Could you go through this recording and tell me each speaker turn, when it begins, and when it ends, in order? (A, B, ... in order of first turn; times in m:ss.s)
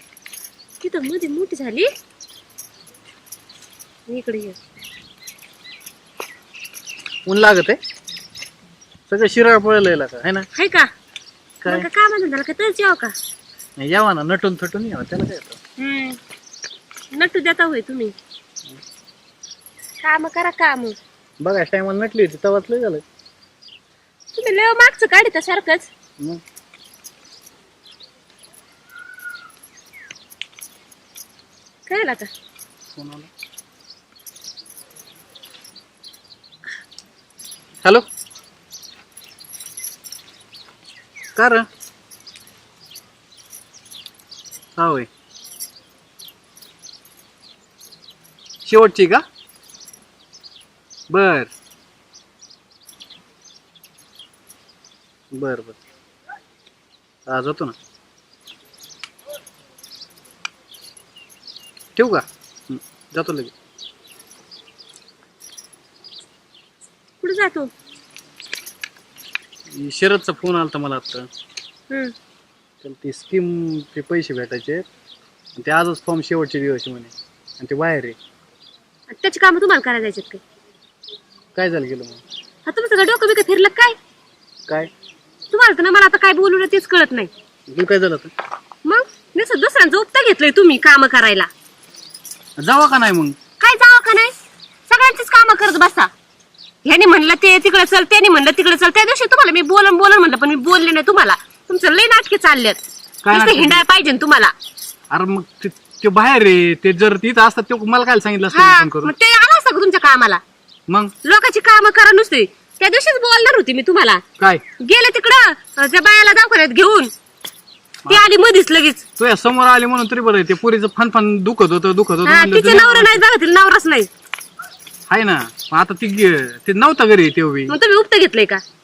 0:00.8-0:01.9 A
0:04.1-0:04.6 A
0:07.3-0:07.8 B
0:09.1-0:10.5 B
0:10.5-0:10.9 A
0:11.6-0:13.1 A
0:13.8-0:15.6 B
0:15.8-0:16.2 A
0:17.1-0:18.1 A
0:20.0-0:21.0 A
0:21.4-0:23.0 B
0:24.3-0:25.9 A
0:31.9-0:32.3 A
0:33.0-0:33.3 B
0:41.4-0:41.7 B
0:44.8-0:45.1 B
0:48.6-0:49.2 B
0:51.1-0:51.5 B
0:55.3-0:55.8 B
0:57.3-0:57.7 B
1:02.0-1:03.5 B
1:07.2-1:07.7 A
1:09.7-1:11.3 B
1:12.8-1:14.8 B
1:15.6-1:18.2 B
1:19.1-1:20.4 A
1:21.5-1:22.2 B
1:22.6-1:24.0 A
1:25.5-1:27.3 A
1:27.7-1:28.3 B
1:28.8-1:31.5 A
1:32.6-1:33.4 B
1:33.6-1:34.3 A
1:34.9-1:36.1 A
1:36.8-1:44.5 A
1:43.2-1:43.8 B
1:45.1-1:49.1 B
1:48.5-1:50.4 A
1:50.9-1:51.1 B
1:51.2-1:54.2 A
1:54.8-1:57.1 A
1:58.1-1:59.0 A
1:59.2-2:03.2 B
2:02.2-2:04.1 A
2:05.1-2:07.7 B
2:07.7-2:08.6 A